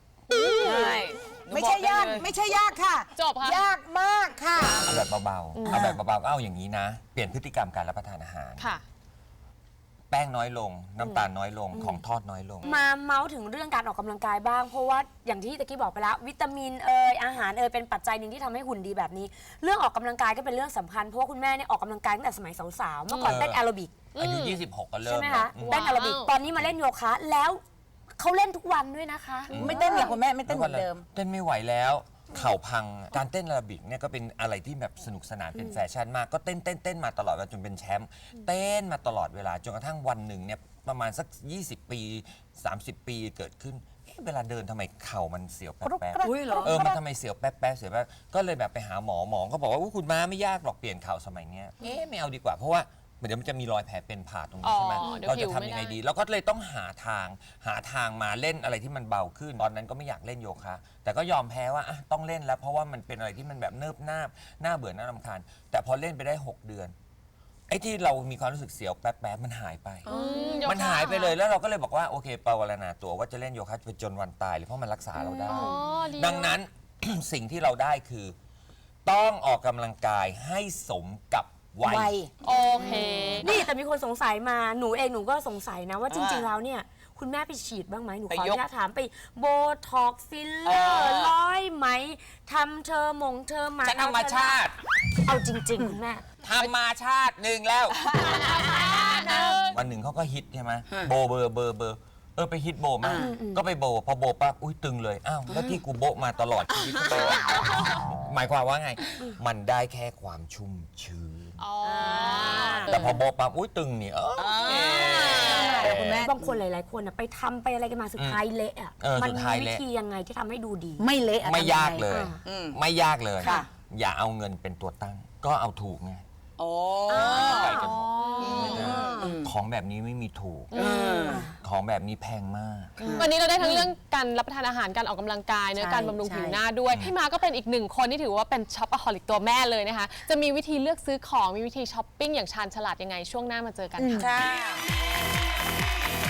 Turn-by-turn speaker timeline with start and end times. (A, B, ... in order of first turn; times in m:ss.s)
0:00.6-0:02.4 A
0:00.7-0:05.0 B
0:03.2-0:03.7 C
0:04.8-0:08.7 D
0:05.5-0:05.9 C
0:05.7-0:06.0 B
0:08.6-0:08.8 C
0:10.1-0:12.7 D
0:11.0-0:11.3 C
0:11.7-0:12.0 E
0:12.6-0:23.9 E
0:23.1-0:23.4 C
0:23.2-0:23.6 D
0:24.2-0:24.6 C
0:24.2-0:25.9 D
0:25.0-0:27.6 E
0:25.6-0:26.3 C
0:28.2-0:30.2 E
0:29.5-0:31.0 B
0:29.5-1:07.0 D
0:29.6-0:30.1 C
0:35.6-0:35.8 E
0:45.8-0:47.0 B
0:46.2-0:46.8 A
0:54.6-0:56.0 C
1:07.7-1:10.1 D
1:10.1-1:11.4 C
1:10.1-1:10.7 A
1:10.1-1:10.6 E
1:10.6-1:18.4 D
1:15.2-1:15.8 E
1:15.4-1:16.6 C
1:19.0-1:22.2 D
1:21.8-1:22.3 B
1:22.4-1:23.5 C
1:22.9-1:23.5 A
1:23.4-1:34.6 E
1:26.1-1:26.5 A
1:28.3-1:28.6 A
1:30.6-1:31.4 A
1:33.8-1:34.8 D
1:35.2-1:36.2 E
1:36.4-1:38.1 D
1:38.1-1:39.7 E
1:38.6-1:39.8 C
1:39.0-1:51.6 D
1:43.0-1:43.4 A
1:43.2-1:43.6 E
1:45.5-1:45.8 A
1:46.8-1:47.0 A
1:51.6-1:53.2 C
1:51.9-1:53.0 E
1:52.9-1:56.2 D
1:54.4-1:55.9 A
1:54.7-1:56.6 B
1:55.8-2:01.0 E
1:58.2-1:58.4 D
1:59.0-1:59.8 D
2:01.0-2:02.1 B
2:01.4-2:06.2 D
2:02.1-2:02.4 E
2:02.4-2:02.8 A
2:03.4-2:03.7 B
2:06.6-2:09.5 A
2:07.1-2:10.8 D
2:07.1-2:09.3 E
2:07.7-2:09.3 B
2:07.8-2:09.1 C
2:10.7-2:11.4 C
2:10.8-2:11.5 A
2:11.3-2:11.5 E
2:11.6-2:13.0 D
2:13.0-2:13.3 A
2:13.1-2:13.9 B
2:13.2-2:24.3 C
2:15.8-2:16.6 B
2:16.9-2:17.1 D
2:24.0-2:24.8 B
2:24.2-2:24.6 A